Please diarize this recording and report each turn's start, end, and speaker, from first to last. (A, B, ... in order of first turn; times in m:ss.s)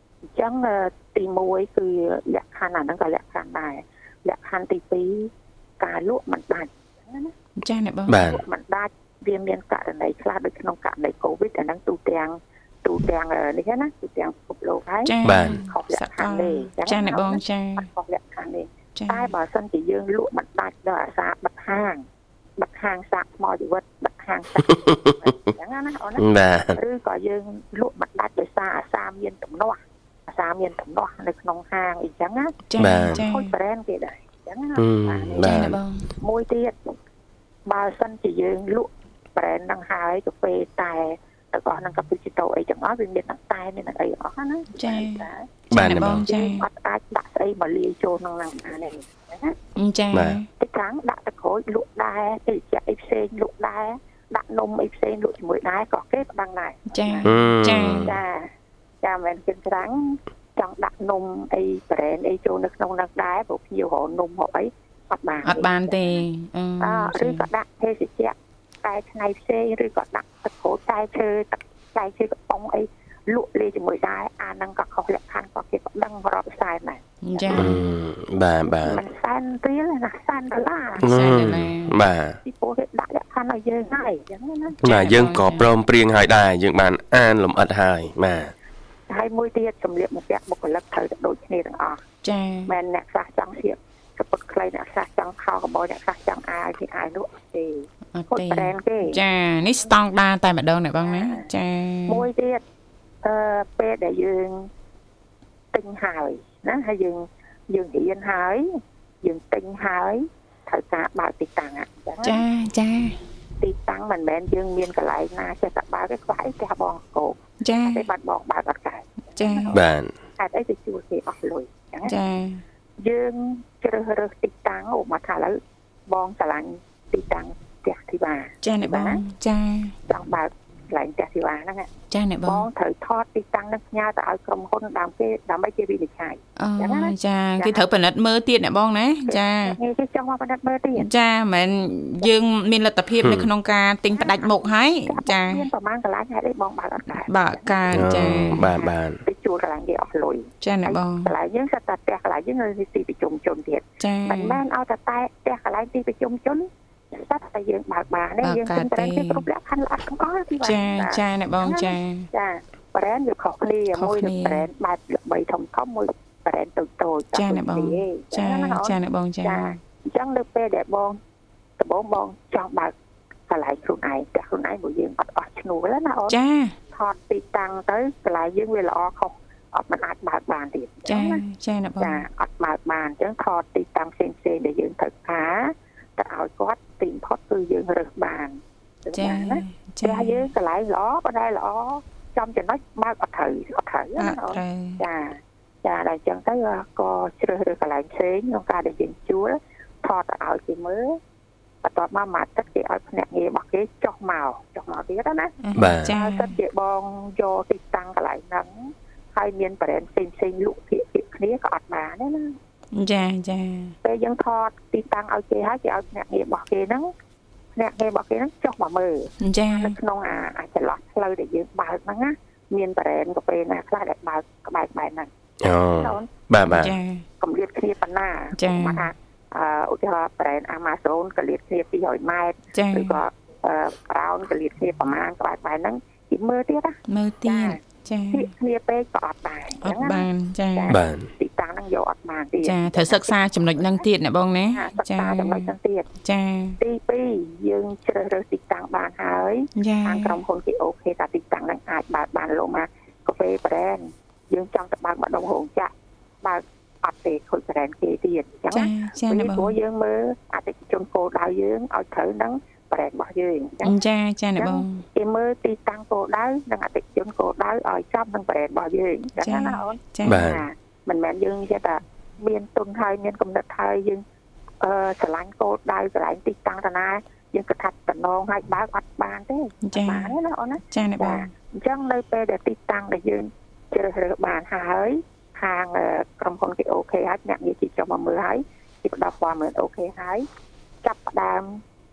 0:00.3-0:07.3 A
0:07.6-0:08.2 B
0:08.1-0:08.4 C
0:08.1-0:22.0 A
0:15.0-0:17.9 B
0:15.2-0:15.6 C
0:19.0-0:19.3 B
0:22.6-0:35.7 A
0:24.7-0:25.3 C
0:26.2-0:26.8 C
0:32.7-0:33.5 B
0:32.8-0:33.2 C
0:34.8-0:35.8 C
0:35.4-0:36.1 B
0:36.2-0:36.9 A
0:37.6-0:45.5 A
0:44.8-0:46.6 B
0:45.7-0:46.2 C
0:46.0-0:49.6 A
0:49.8-0:50.5 B
0:50.1-0:50.4 C
0:50.6-0:57.4 A
0:56.9-0:58.1 B
0:57.2-0:58.1 C
0:57.9-0:58.5 A
0:59.0-1:06.2 A
1:05.4-1:07.4 B
1:06.8-1:17.8 A
1:17.2-1:17.8 B
1:17.5-1:19.0 C
1:18.7-1:21.4 A
1:21.0-1:22.0 B
1:21.0-1:22.4 C
1:22.4-1:24.8 A
1:24.8-1:25.7 B
1:24.8-1:28.5 C
1:29.1-1:32.0 A
1:32.2-1:32.7 B
1:32.6-1:39.2 A
1:38.1-1:42.2 B
1:41.0-1:41.5 A
1:42.1-1:42.6 A
1:43.2-1:44.7 A
1:45.7-1:48.7 A
1:49.2-1:52.4 A
1:52.2-1:53.2 B
1:53.6-1:59.8 A
1:57.6-1:58.0 B
1:59.4-1:59.7 B
1:59.7-2:00.1 C
2:00.4-2:02.2 A
2:02.0-2:02.6 B
2:03.0-2:09.2 A
2:08.6-2:09.9 B
2:10.1-2:11.9 A
2:12.1-2:12.7 B
2:12.4-2:17.8 A
2:16.6-2:19.8 B
2:19.3-2:21.1 A
2:20.9-2:25.7 B
2:23.2-2:23.5 C
2:24.1-2:51.2 A
2:27.2-2:28.7 B
2:27.9-2:29.2 C
2:30.6-2:31.3 B
2:34.0-2:34.6 B
2:38.4-2:39.4 B
2:40.6-2:42.3 B
2:43.9-2:44.6 B
2:47.3-2:49.7 B
2:51.8-2:52.9 A
2:53.5-2:56.4 A
2:56.3-2:56.8 B
2:56.9-3:01.4 A
3:01.1-3:02.2 B
3:02.0-3:21.2 A
3:09.1-3:10.5 B
3:14.2-3:15.0 B
3:21.8-3:32.6 A
3:25.6-3:26.6 B
3:25.7-3:26.1 C
3:32.9-3:33.9 B
3:34.0-3:37.1 A
3:37.8-3:45.3 A
3:39.4-3:40.0 B
3:45.6-3:47.0 C
3:46.0-3:46.3 A
3:46.7-3:47.2 B
3:47.4-4:04.1 A
3:48.5-3:49.1 B
3:52.7-3:53.2 B
3:57.1-3:58.5 B
3:59.8-4:00.9 B
4:00.9-4:01.3 C
4:02.6-4:06.8 B
4:04.7-4:06.1 A
4:06.8-4:24.0 A
4:09.8-4:10.4 B
4:18.7-4:19.8 B
4:23.8-4:25.0 B
4:24.6-4:34.2 A
4:29.4-4:30.5 B
4:30.2-4:30.6 C
4:34.8-4:50.5 A
4:39.8-4:40.3 B
4:40.9-4:41.5 B
4:51.0-4:51.8 A